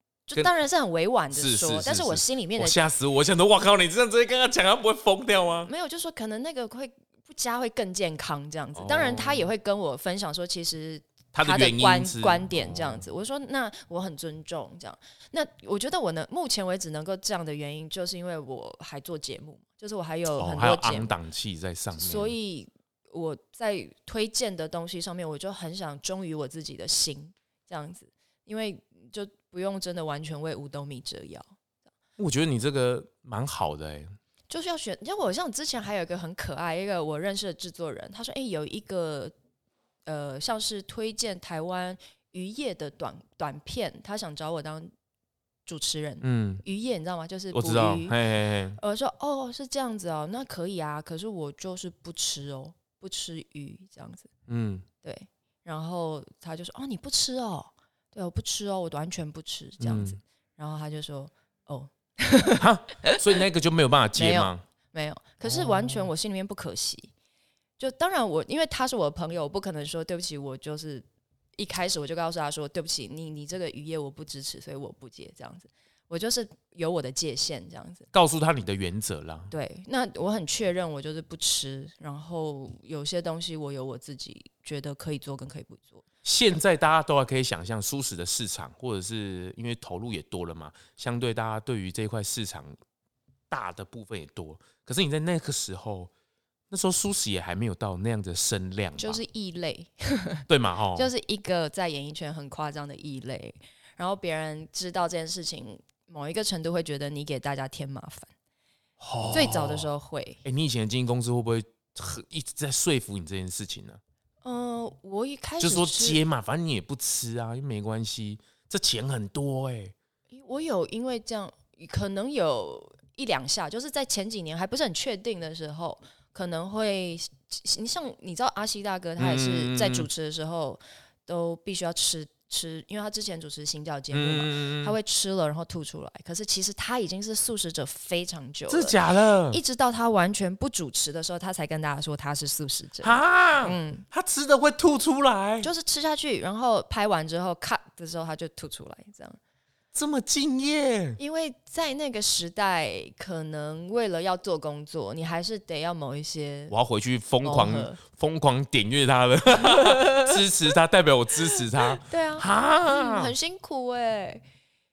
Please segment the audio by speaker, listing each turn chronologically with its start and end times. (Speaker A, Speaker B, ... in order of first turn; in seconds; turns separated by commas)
Speaker A: 0.3-2.8, Speaker B: 1.3-5.7, Speaker A: 5.7-21.1, Speaker B: 8.8-9.4, Speaker B: 11.3-13.0, Speaker B: 20.4-22.4, Speaker A: 21.9-31.5, Speaker B: 32.2-34.1, Speaker A: 34.5-39.3, Speaker A: 40.1-44.9, Speaker A: 45.7-48.2, Speaker B: 46.2-46.6, Speaker B: 47.5-48.8, Speaker A: 48.8-54.3, Speaker B: 54.5-54.9, Speaker A: 55.0-63.2, Speaker B: 59.8-60.2, Speaker B: 62.6-64.6, Speaker A: 64.1-67.1, Speaker B: 65.5-66.1, Speaker A: 67.8-71.0, Speaker A: 71.6-78.1, Speaker B: 78.1-79.5, Speaker A: 79.5-86.0, Speaker B: 86.2-92.8, Speaker B: 93.5-96.1, Speaker B: 96.7-99.2, Speaker A: 99.0-108.3, Speaker B: 100.5-101.1, Speaker B: 109.0-109.9, Speaker A: 109.3-110.4, Speaker B: 110.4-114.0, Speaker A: 114.4-116.2, Speaker B: 115.6-120.0, Speaker A: 120.3-139.0, Speaker B: 129.2-130.1, Speaker B: 134.1-135.0, Speaker B: 138.7-139.6, Speaker A: 139.5-144.1, Speaker B: 143.0-145.7, Speaker A: 145.6-149.4, Speaker B: 149.9-151.2, Speaker A: 151.2-156.7, Speaker B: 156.7-163.3, Speaker A: 157.4-158.0, Speaker A: 159.6-160.4, Speaker A: 161.6-164.4